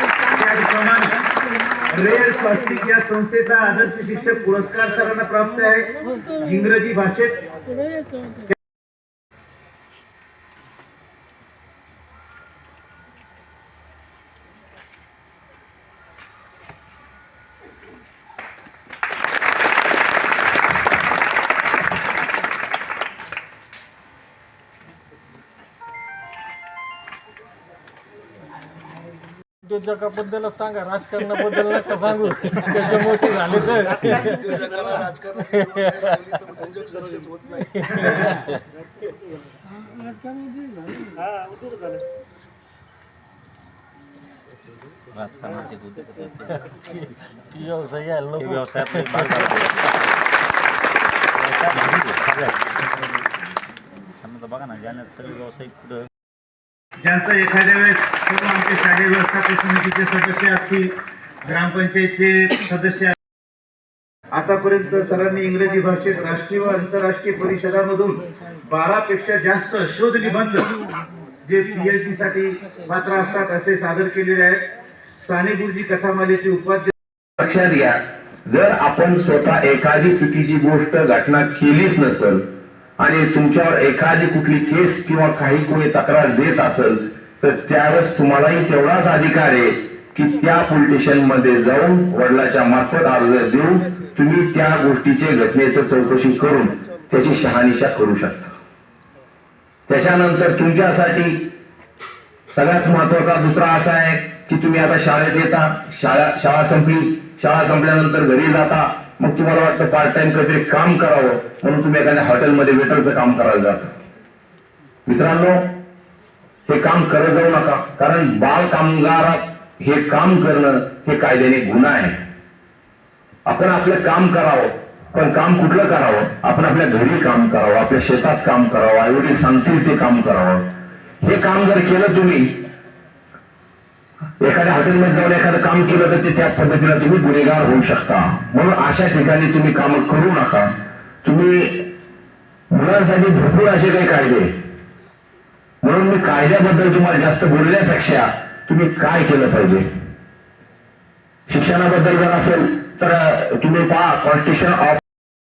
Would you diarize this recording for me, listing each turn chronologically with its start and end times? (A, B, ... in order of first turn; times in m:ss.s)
0:00.2-0:01.3 A
0:01.9-0:07.4 A
0:29.6-0:34.5 B
0:34.1-0:37.7 C
0:37.8-0:38.1 B
0:40.0-0:41.0 B
0:45.1-0:50.0 D
0:48.4-0:48.6 B
0:51.4-0:52.6 D
0:54.2-0:56.1 D
0:57.0-1:03.1 A
1:04.3-1:10.7 A
1:11.4-1:16.9 A
1:17.4-1:22.4 E
1:23.0-1:38.5 E
1:39.9-1:41.5 E
1:42.5-1:53.9 E
1:55.0-1:55.7 E
1:56.7-2:02.2 E
2:03.5-2:10.7 E
2:11.2-2:12.6 E
2:14.4-2:20.7 E
2:21.2-2:21.9 E
2:22.7-2:24.5 E
2:25.8-2:29.9 E
2:31.5-2:35.0 E